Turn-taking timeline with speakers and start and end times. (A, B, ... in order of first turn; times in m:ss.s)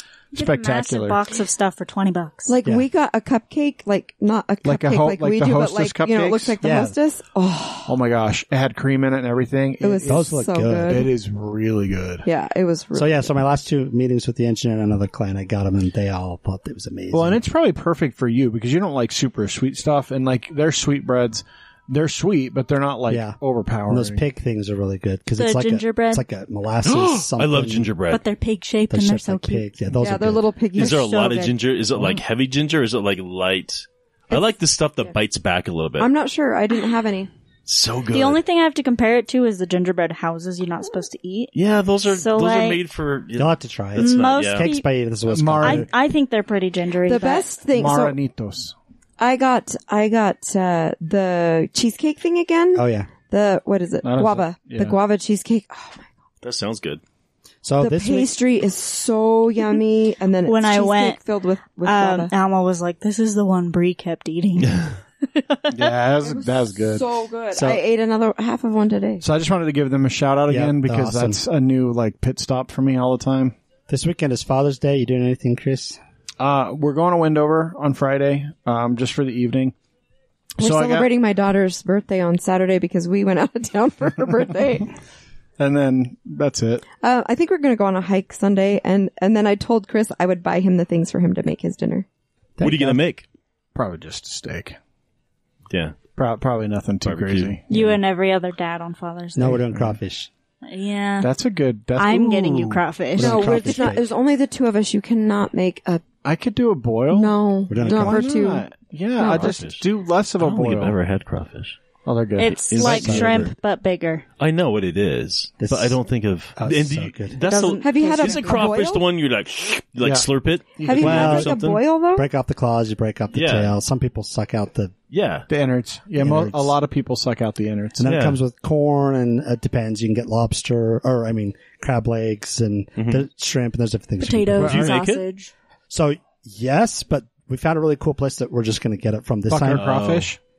0:00.3-0:01.2 A
0:00.3-0:02.5 B
0:02.5-0:08.0 C
0:04.6-0:06.6 A
0:06.6-0:07.0 D
0:07.9-0:12.3 A
0:09.8-0:11.1 C
0:10.1-0:11.1 D
0:12.2-0:13.3 C
0:13.0-0:17.4 D
0:17.1-0:24.3 A
0:23.1-0:27.9 D
0:25.4-0:26.2 B
0:26.8-0:28.2 E
0:28.1-0:29.7 B
0:28.9-0:30.5 D
0:30.0-0:31.5 C
0:30.8-0:36.1 E
0:30.8-0:31.3 B
0:34.3-0:34.6 C
0:36.0-0:37.3 C
0:37.7-0:38.4 E
0:38.1-0:41.5 B
0:41.6-0:44.7 E
0:42.1-0:42.8 B
0:43.4-0:45.9 D
0:44.0-0:44.9 B
0:45.3-0:45.9 A
0:45.6-0:47.5 B
0:47.1-0:48.2 C
0:47.7-0:48.8 A
0:49.2-0:56.1 C
0:52.8-0:53.1 D
0:54.0-0:55.0 A
0:56.4-0:57.0 E
0:57.6-0:58.4 D
0:57.8-1:02.3 C
1:00.4-1:01.2 B
1:01.8-1:05.6 B
1:05.7-1:07.1 A
1:06.2-1:09.2 C
1:07.5-1:07.8 D
1:09.2-1:13.6 A
1:10.5-1:11.4 D
1:13.9-1:16.0 D
1:16.4-1:19.7 A
1:20.6-1:21.1 A
1:20.6-1:24.9 C
1:25.6-1:26.8 A
1:27.0-1:32.1 C
1:32.6-1:33.0 D
1:32.6-1:33.2 E
1:33.8-1:34.8 A
1:35.7-1:36.0 E
1:36.2-1:38.0 A
1:37.0-1:37.6 E
1:37.7-1:39.6 B
1:39.4-1:40.3 D
1:39.4-1:40.0 A
1:40.6-1:41.3 B
1:41.2-1:42.8 A
1:42.0-1:43.9 B
1:43.2-1:44.1 D
1:43.2-1:46.0 C
1:46.2-1:51.0 A
1:47.1-1:48.7 C
1:47.7-1:48.4 D
1:49.2-1:49.5 C
1:49.2-1:49.9 E
1:50.4-1:51.8 E
1:52.0-1:53.5 A
1:52.4-1:54.2 B
1:52.5-1:53.5 E
1:52.8-1:53.5 D
1:54.4-2:01.8 E
1:55.6-1:56.0 D
1:56.6-1:57.4 D
1:57.5-1:58.8 B
1:57.8-1:59.0 C
2:00.0-2:01.3 A
2:00.8-2:02.3 C
2:01.0-2:01.6 D
2:02.2-2:04.9 D
2:03.3-2:03.8 E
2:05.1-2:05.5 E
2:05.5-2:08.0 A
2:06.2-2:06.8 D
2:08.0-2:14.8 D
2:08.0-2:08.4 E
2:13.0-2:13.2 E
2:14.2-2:15.5 B
2:14.6-2:15.0 A
2:14.6-2:15.2 E
2:15.9-2:19.9 D
2:19.5-2:20.4 A
2:19.7-2:20.3 E